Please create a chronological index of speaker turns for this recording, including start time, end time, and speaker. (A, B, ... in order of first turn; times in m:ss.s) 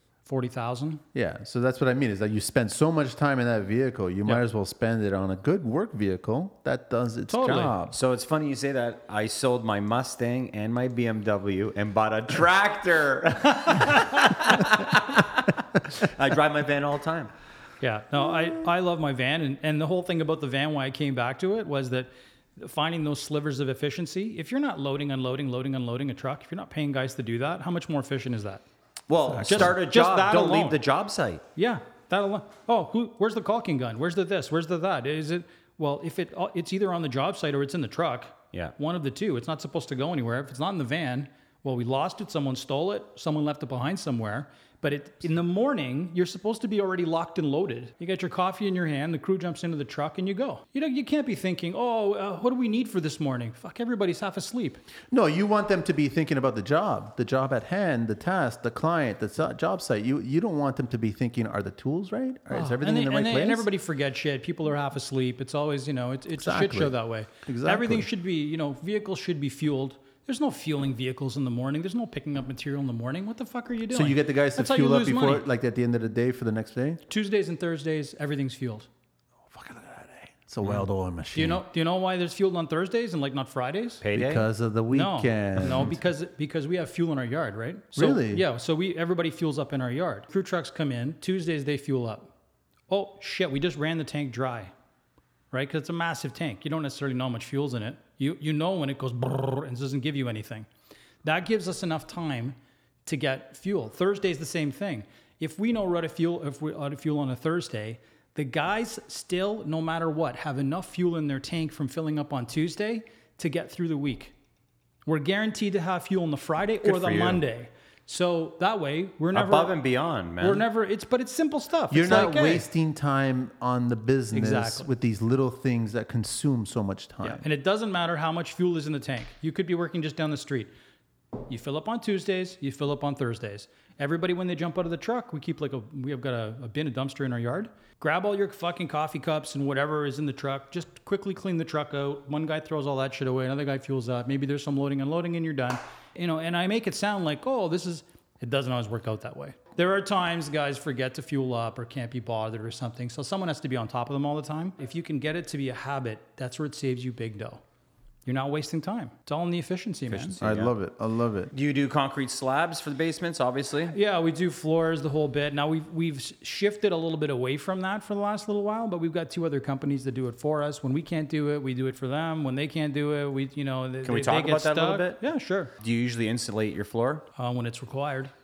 0:00.2-0:01.0 A
0:01.1-0:08.0 B
0:07.3-0:07.7 A
0:07.9-0:17.3 C
0:17.8-0:28.6 A
0:29.1-0:31.4 C
0:29.3-0:29.7 B
0:29.4-0:30.8 A
0:31.6-0:54.8 A
0:55.1-1:03.7 B
1:02.5-1:15.4 A
1:06.4-1:08.1 B
1:13.9-1:17.0 B
1:17.1-1:18.9 A
1:19.5-1:21.6 B
1:21.3-1:24.0 A
1:24.0-1:24.4 C
1:24.1-1:26.0 B
1:24.9-1:32.3 A
1:28.0-1:28.4 B
1:32.9-1:34.7 A
1:35.5-1:40.7 A
1:41.2-1:54.3 A
1:55.0-1:59.8 A
1:56.8-1:57.4 C
1:59.3-2:00.6 C
2:00.4-2:02.6 A
2:01.9-2:07.4 B
2:04.3-2:04.9 A
2:07.2-2:10.7 A
2:11.5-2:37.6 A
2:38.2-2:40.4 A
2:40.1-2:40.7 C
2:40.4-2:41.5 B
2:41.5-2:44.0 C
2:43.9-2:55.7 A
2:54.0-2:55.2 C
2:55.8-2:57.2 C
2:57.4-2:58.3 A